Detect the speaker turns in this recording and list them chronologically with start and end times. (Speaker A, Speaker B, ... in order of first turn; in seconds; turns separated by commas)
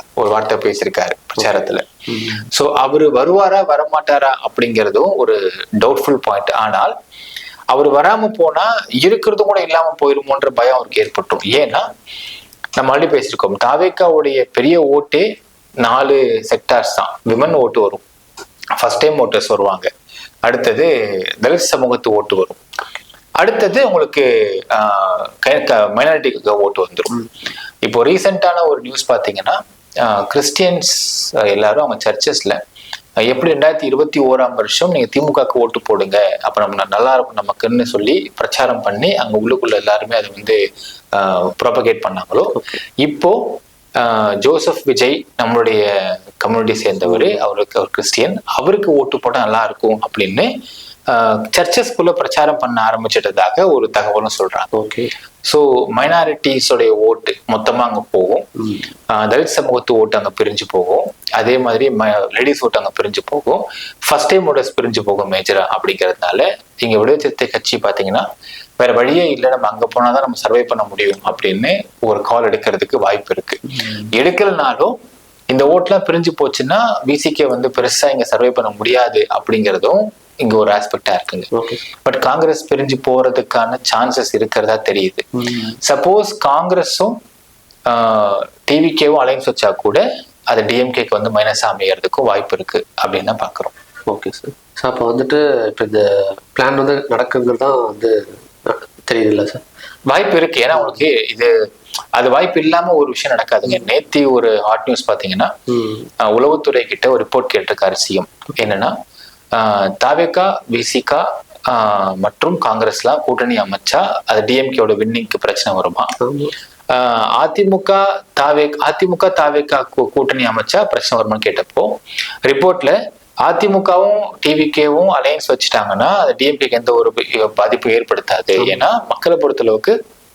Speaker A: 0.2-1.9, Speaker B: 2.1-2.5, Speaker A: 2.5-6.9, Speaker A: 7.7-11.9, Speaker A: 12.8-15.3, Speaker A: 15.8-18.0, Speaker A: 18.8-19.9, Speaker A: 20.4-22.6, Speaker A: 23.4-27.2, Speaker A: 27.8-32.6, Speaker A: 33.2-40.6, Speaker A: 41.1-50.5, Speaker B: 47.0-47.4, Speaker A: 51.1-54.7, Speaker B: 54.7-55.1, Speaker A: 55.5-58.5, Speaker B: 58.6-58.9, Speaker A: 59.1-68.3, Speaker A: 68.8-75.0, Speaker B: 73.7-74.1, Speaker A: 75.5-81.5, Speaker B: 81.5-81.8, Speaker A: 82.0-85.3, Speaker B: 85.3-85.8, Speaker A: 85.8-87.2, Speaker A: 87.9-93.7, Speaker B: 94.1-99.6, Speaker A: 100.1-101.5, Speaker A: 102.1-105.5, Speaker B: 105.7-106.1, Speaker A: 106.2-108.9, Speaker A: 109.5-116.2, Speaker B: 116.2-116.5, Speaker A: 116.9-129.9